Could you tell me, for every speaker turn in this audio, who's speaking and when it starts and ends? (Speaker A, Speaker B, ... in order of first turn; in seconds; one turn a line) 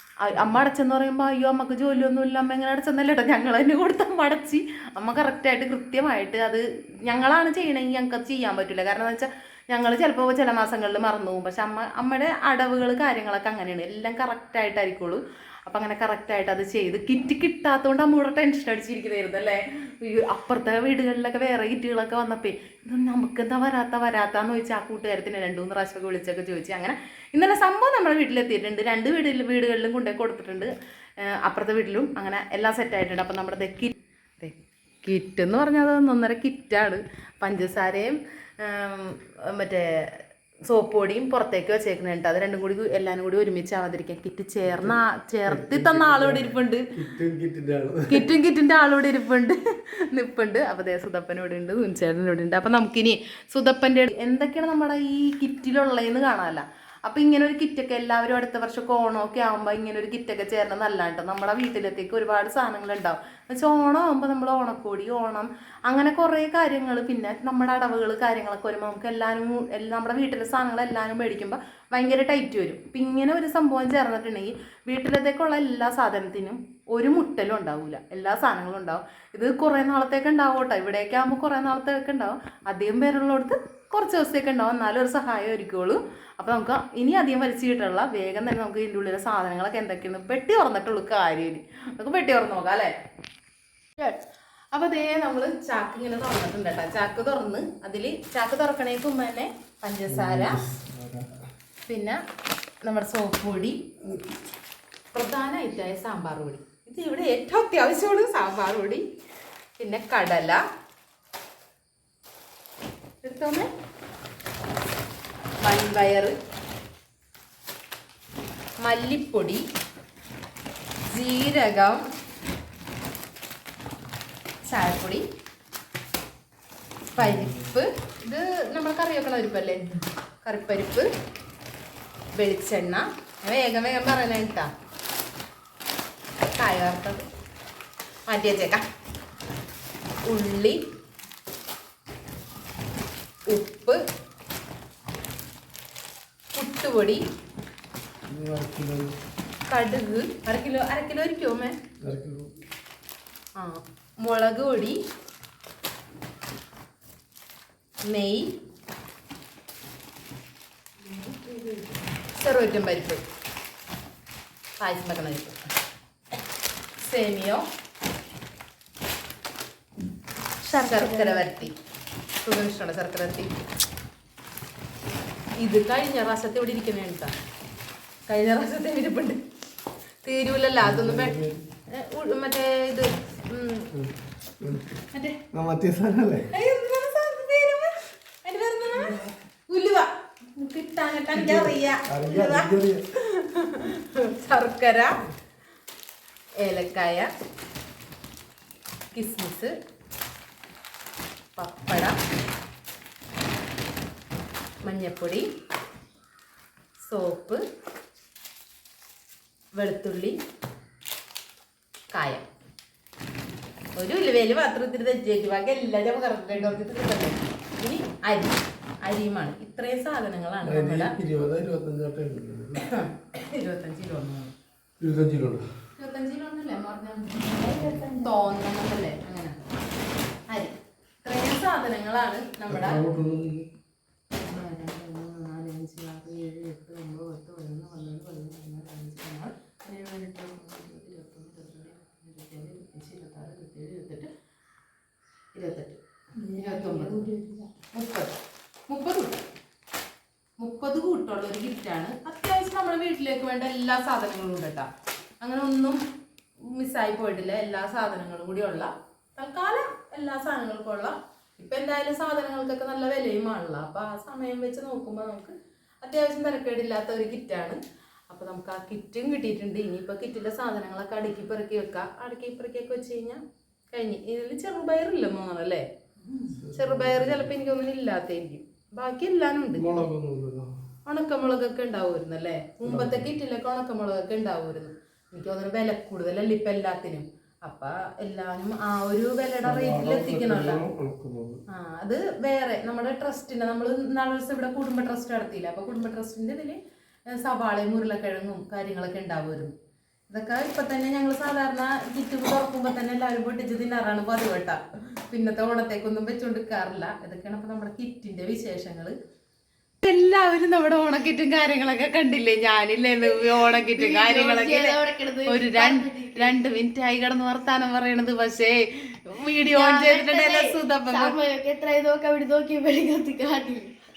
Speaker A: 0.2-46.9
Speaker B: 44.6-48.3
Speaker A: 48.1-92.9
Speaker A: 94.7-100.6
Speaker B: 100.1-101.3
Speaker A: 101.9-102.2
Speaker A: 102.8-103.8
Speaker A: 105.1-109.0
Speaker A: 109.8-110.6
Speaker A: 113.2-113.7
Speaker A: 115.6-116.3
Speaker A: 118.8-119.6
Speaker A: 121.1-122.0
Speaker A: 124.7-125.2
Speaker A: 127.1-129.8
Speaker B: 127.2-127.6
Speaker A: 130.4-131.1
Speaker A: 132.3-134.7
Speaker A: 136.5-137.2
Speaker A: 138.3-138.8
Speaker A: 140.2-140.8
Speaker A: 143.5-144.0
Speaker A: 146.5-147.2
Speaker B: 148.3-149.2
Speaker A: 149.7-151.8
Speaker B: 152.0-152.5
Speaker A: 153.6-155.0
Speaker A: 158.0-158.5
Speaker C: 161.1-161.9
Speaker A: 162.2-163.2
Speaker A: 164.8-165.6
Speaker A: 167.0-167.6
Speaker A: 170.6-171.7
Speaker C: 170.9-171.5
Speaker A: 172.4-173.5
Speaker A: 175.6-177.3
Speaker A: 178.3-179.4
Speaker A: 180.2-181.4
Speaker B: 180.8-181.6
Speaker A: 181.9-183.9
Speaker B: 183.9-185.0
Speaker A: 185.1-185.4
Speaker B: 185.5-186.5
Speaker A: 186.5-195.2
Speaker B: 191.3-193.0
Speaker A: 196.6-197.3
Speaker A: 199.1-199.7
Speaker A: 201.6-202.2
Speaker A: 204.8-205.5
Speaker A: 207.0-207.6
Speaker A: 209.7-210.4
Speaker A: 212.1-212.4
Speaker A: 213.9-221.2
Speaker B: 220.6-222.8
Speaker A: 222.8-224.5
Speaker B: 225.0-225.6
Speaker A: 226.0-229.6
Speaker C: 227.3-228.3
Speaker A: 230.5-233.0
Speaker B: 232.7-233.7
Speaker A: 234.3-244.3
Speaker A: 245.5-247.3
Speaker C: 246.4-247.7
Speaker A: 247.9-248.3
Speaker A: 248.9-249.4
Speaker A: 250.6-254.9
Speaker A: 255.4-256.0
Speaker A: 256.6-267.8
Speaker A: 268.3-280.0
Speaker B: 276.5-277.5
Speaker B: 279.8-280.7
Speaker A: 281.1-290.8
Speaker B: 282.8-283.3
Speaker B: 289.6-291.6
Speaker A: 291.7-299.7
Speaker A: 300.3-309.1
Speaker A: 310.0-321.4
Speaker C: 313.2-316.6
Speaker C: 319.7-323.9